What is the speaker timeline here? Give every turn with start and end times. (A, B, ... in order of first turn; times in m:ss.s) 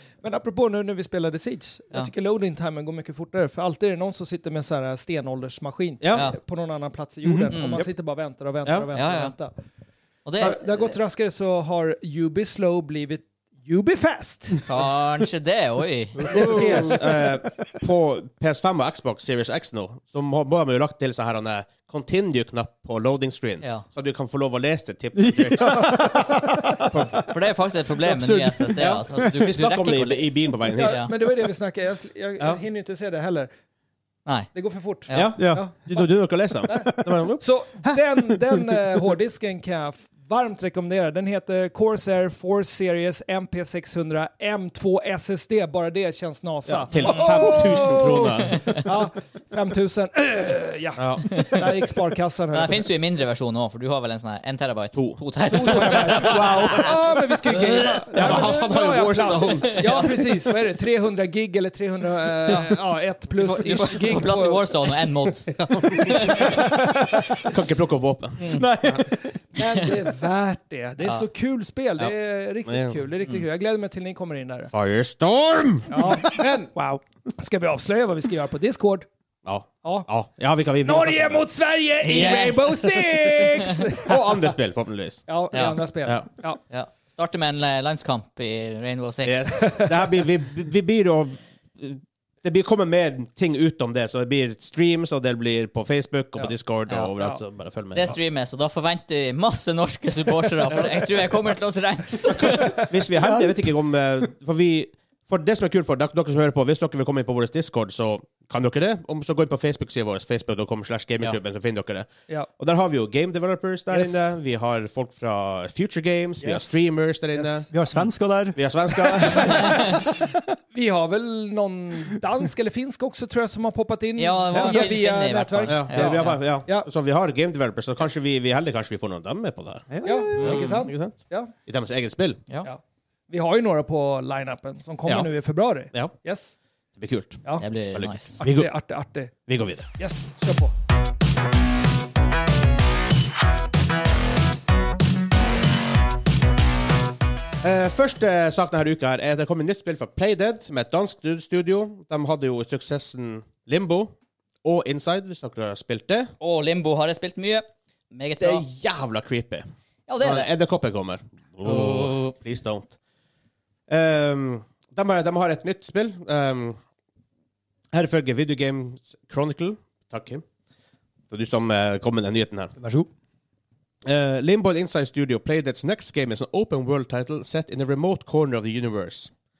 0:00.2-0:09.5 A
0:06.0-0:06.3 B
0:06.1-0:06.4 C
0:07.2-0:07.9 D
0:07.5-0:07.8 C
0:08.9-0:09.3 C
0:10.2-0:10.9 C
0:10.4-0:14.7 A
0:14.7-0:16.4 C
0:16.2-0:17.3 D
0:16.2-0:27.2 B
0:25.1-0:27.3 D
0:27.3-0:31.1 C
0:28.0-0:29.4 D
0:28.8-0:31.1 B
0:30.7-0:33.5 A
0:34.5-0:36.0 A
0:35.1-0:35.4 C
0:35.1-0:37.4 B
0:35.4-0:35.7 D
0:36.7-0:37.3 D
0:37.4-0:52.8 A
0:37.8-0:39.0 D
0:46.7-0:48.8 B
0:51.0-0:51.4 B
0:52.5-0:56.7 C
0:54.9-0:56.8 B
0:55.5-1:04.6 A
0:55.6-0:57.0 D
0:57.5-0:58.5 C
0:58.1-0:59.8 B
0:59.4-1:00.0 C
1:03.4-1:06.6 C
1:05.4-1:06.7 B
1:07.3-1:09.0 B
1:08.4-1:08.7 C
1:08.5-1:09.1 D
1:09.4-1:14.7 A
1:12.6-1:13.0 B
1:14.7-1:16.0 B
1:15.9-1:16.7 A
1:16.7-1:17.0 D
1:17.4-1:19.1 A
1:19.4-1:21.4 B
1:19.8-1:20.1 A
1:20.8-1:24.2 A
1:22.0-1:22.8 C
1:22.1-1:22.6 B
1:24.0-1:25.2 B
1:25.3-1:26.6 A
1:25.5-1:25.8 C
1:26.7-1:29.8 C
1:29.2-1:38.2 B
1:37.9-1:42.8 C
1:42.4-1:57.7 B
1:43.2-1:43.6 D
1:53.9-1:54.3 A
1:56.4-1:56.8 A
1:57.3-1:57.6 A
1:57.7-2:00.4 D
1:58.5-2:00.0 B
2:00.7-2:06.9 A
2:04.2-2:06.4 C
2:04.5-2:04.9 D
2:05.7-2:12.4 B
2:09.9-2:10.6 D
2:10.0-2:11.5 A
2:10.4-2:10.8 C
2:12.6-2:16.5 A
2:15.0-2:15.3 B
2:17.0-2:18.7 B
2:17.6-2:18.4 C
2:18.4-2:19.3 A
2:19.3-2:19.8 B
2:20.0-2:20.7 A
2:27.6-2:34.1 B
2:34.6-2:36.3 B
2:36.4-2:38.6 C
2:38.4-2:39.6 B
2:40.1-2:40.5 C
2:40.2-2:42.9 B
2:41.6-2:42.3 C
2:43.9-2:46.8 B
2:47.9-2:50.4 B
2:51.3-2:52.7 B
2:52.8-2:53.1 D
2:54.0-2:59.3 B